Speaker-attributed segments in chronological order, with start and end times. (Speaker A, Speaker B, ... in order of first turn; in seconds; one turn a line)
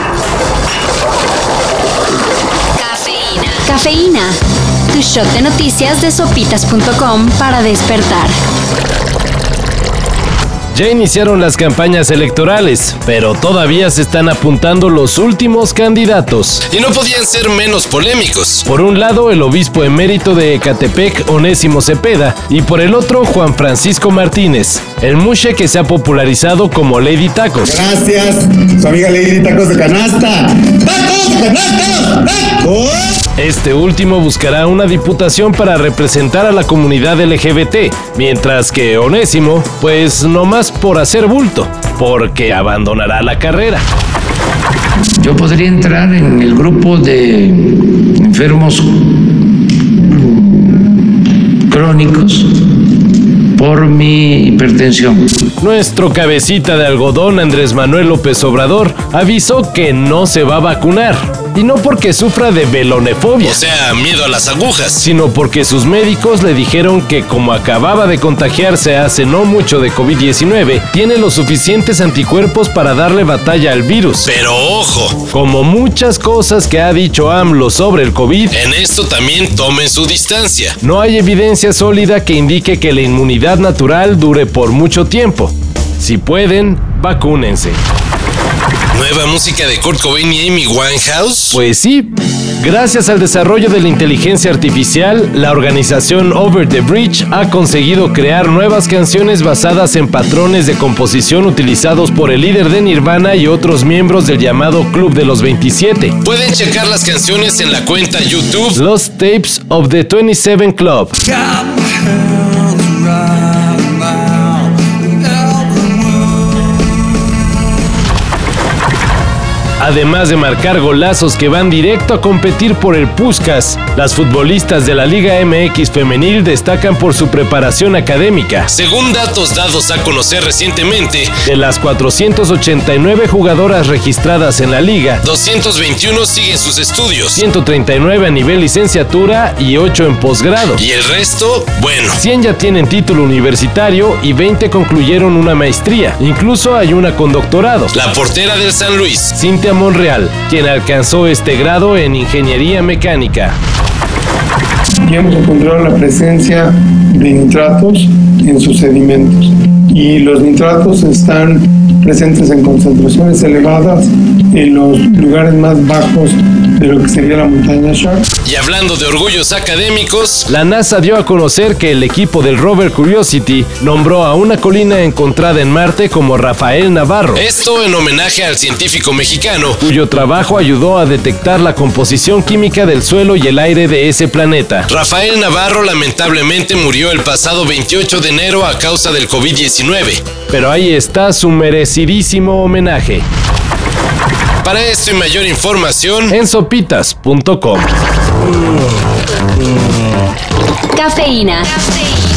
Speaker A: 3.3-4.4
Speaker A: 4.9-8.3
Speaker B: 10.7-16.7
Speaker C: 16.7-18.6
Speaker B: 18.6-27.8
Speaker D: 27.6-33.1
Speaker B: 33.4-43.9
Speaker E: 45.2-49.0
Speaker E: 50.1-50.8
Speaker E: 51.7-52.5
Speaker E: 53.5-55.4
Speaker B: 55.6-63.6
Speaker C: 63.4-65.1
Speaker B: 65.0-74.3
Speaker C: 74.2-75.3
Speaker B: 75.2-78.6
Speaker C: 78.5-80.8
Speaker B: 80.8-87.8
Speaker C: 88.9-91.6
Speaker B: 91.5-106.3
Speaker C: 106.2-108.8
Speaker B: 108.7-111.1
Speaker B: 119.8-128.7
Speaker C: 128.7-131.4
Speaker B: 131.4-135.2
Speaker C: 135.2-137.4
Speaker B: 137.3-140.8
Speaker C: 140.6-142.2
Speaker B: 142.1-148.0
Speaker C: 147.9-149.3
Speaker B: 149.3-153.6
Speaker F: 155.0-168.2
Speaker C: 168.4-170.5
Speaker B: 170.5-177.5
Speaker C: 177.4-179.8
Speaker B: 179.8-184.9
Speaker C: 184.9-190.3
Speaker B: 190.4-193.3
Speaker C: 194.6-196.4
Speaker B: 196.3-197.9
Speaker A: 200.9-201.9